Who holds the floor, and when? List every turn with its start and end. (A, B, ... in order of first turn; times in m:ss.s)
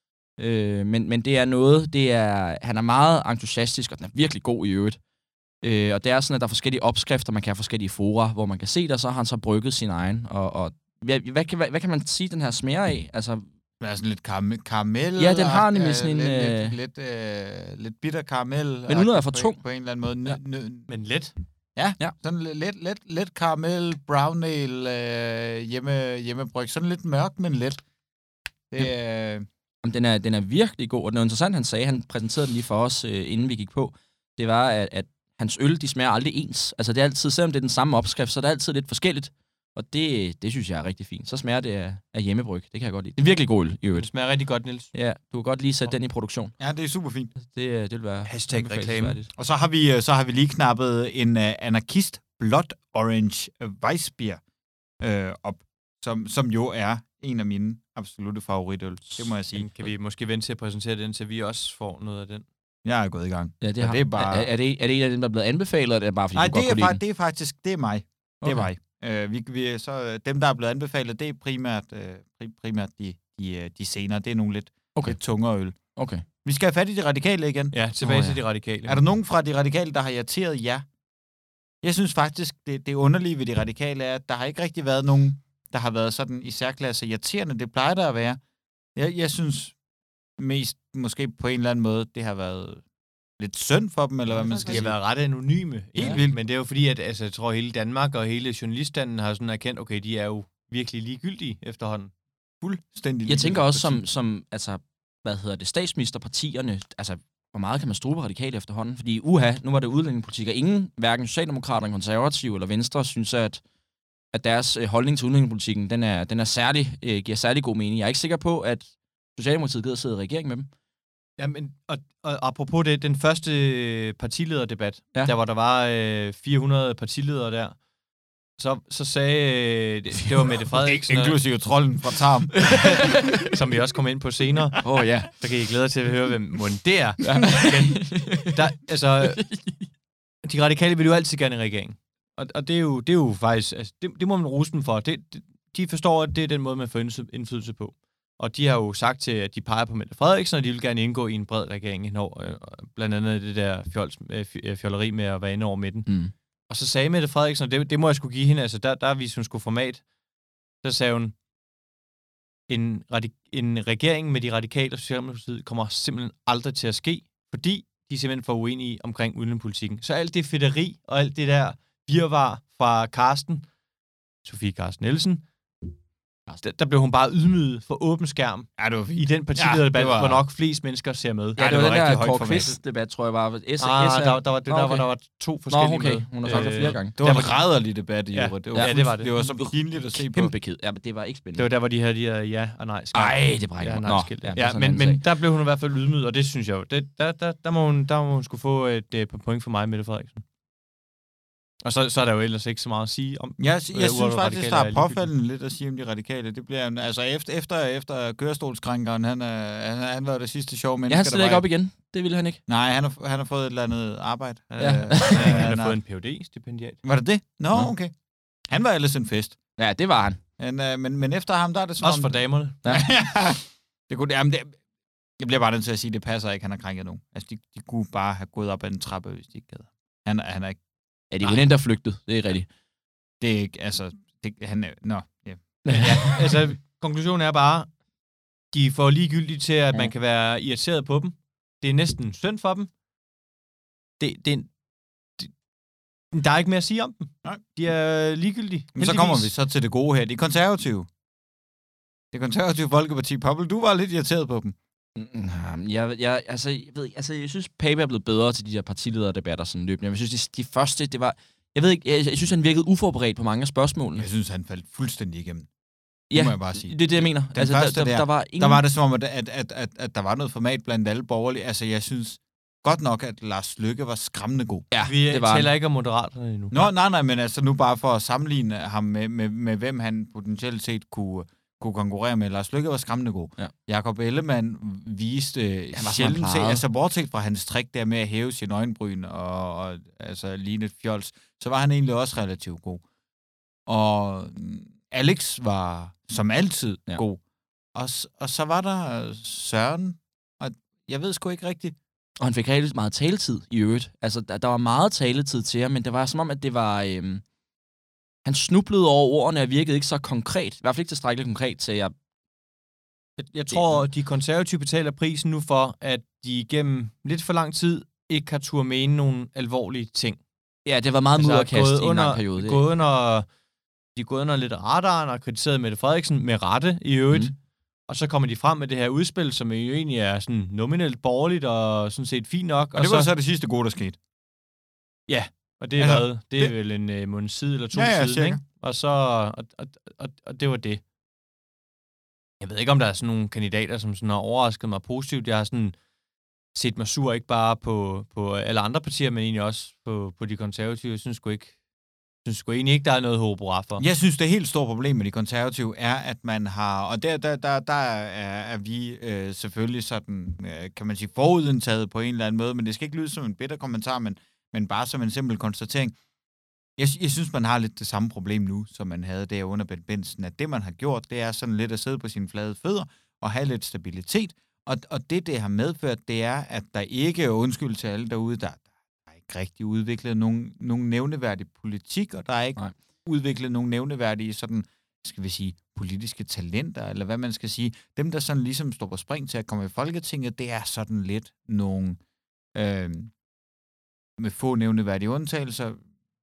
0:00.4-0:05.0 A
0:05.6-0:13.4 A
0:13.8-0:20.9 B
0:15.2-0:16.7 A
0:18.9-0:19.6 A
0:20.9-0:21.3 C
0:21.8-0:27.8 B
0:28.7-0:29.4 B
0:29.8-0:44.1 A
0:43.9-0:44.9 C
0:44.9-0:46.5 A
0:46.6-0:47.3 B
0:47.4-0:49.2 A
0:48.2-0:49.3 C
0:49.3-0:54.4 B
0:55.0-0:59.9 B
0:59.5-1:02.4 C
1:02.8-1:04.5 B
1:03.6-1:07.0 A
1:06.3-1:15.8 B
1:08.4-1:08.7 A
1:16.0-1:16.2 A
1:16.4-1:17.8 B
1:17.7-1:19.0 C
1:18.0-1:18.4 A
1:18.9-1:20.8 B
1:21.8-1:28.4 B
1:29.0-1:29.7 B
1:30.4-1:32.8 B
1:33.4-1:35.0 B
1:34.4-1:42.1 C
1:36.0-1:36.4 B
1:42.6-1:44.0 B
1:43.2-1:53.6 A
1:54.3-2:00.7 A
2:01.4-2:07.8 C
2:08.6-2:11.4 C
2:10.8-2:13.1 B
2:12.7-2:19.4 C
2:14.8-2:15.3 A
2:17.2-2:18.5 A
2:19.2-2:19.8 A
2:20.4-2:36.1 C
2:36.1-2:36.3 A
2:36.7-2:40.0 C
2:40.8-2:41.3 C
2:42.7-2:53.7 C
2:54.4-2:55.4 C
2:56.6-3:02.7 C
2:58.8-3:00.4 B
3:01.6-3:05.1 A
3:01.7-3:02.7 B
3:03.8-3:07.6 C
3:05.7-3:07.2 A
3:06.5-3:10.5 B
3:08.3-3:09.3 C
3:08.7-3:11.7 A
3:11.6-3:20.4 C
3:13.1-3:15.2 A
3:21.8-3:25.3 C
3:23.6-3:31.6 B
3:31.1-3:32.6 A
3:32.7-3:36.0 B
3:34.7-3:37.0 C
3:34.8-3:35.7 A
3:37.0-3:38.1 B
3:38.7-3:39.6 B
3:39.8-3:40.4 A
3:40.6-3:44.8 B
3:42.0-3:42.8 C
3:45.4-3:50.8 B
3:51.3-3:52.7 A
3:53.4-3:56.3 B
3:55.8-3:56.4 A
3:55.9-3:57.9 C
3:58.7-4:02.9 C
4:04.2-4:04.7 C
4:06.3-4:09.5 C
4:09.0-4:11.1 B
4:12.3-4:14.7 B
4:15.2-4:24.3 A
4:24.2-4:25.7 B
4:26.3-4:28.8 A
4:26.3-4:34.8 B
4:34.9-4:35.7 A
4:35.0-4:36.8 C
4:36.7-4:53.0 B
4:45.9-4:46.8 A
4:53.9-4:57.4 B
4:57.9-5:01.9 B
5:02.4-5:07.4 A
5:08.4-5:12.1 A
5:13.4-5:20.4 C
5:20.8-5:22.8 A
5:21.4-5:23.5 C
5:24.2-5:27.5 C
5:28.1-5:33.3 C
5:32.9-5:34.2 B
5:35.3-5:41.0 C
5:36.0-5:36.7 B
5:37.9-5:38.6 B
5:42.6-5:46.0 C
5:46.7-5:51.7 C
5:52.4-5:54.0 C
5:54.0-6:06.1 B
6:07.0-6:32.2 B
6:32.7-6:33.3 B
6:34.4-6:36.0 B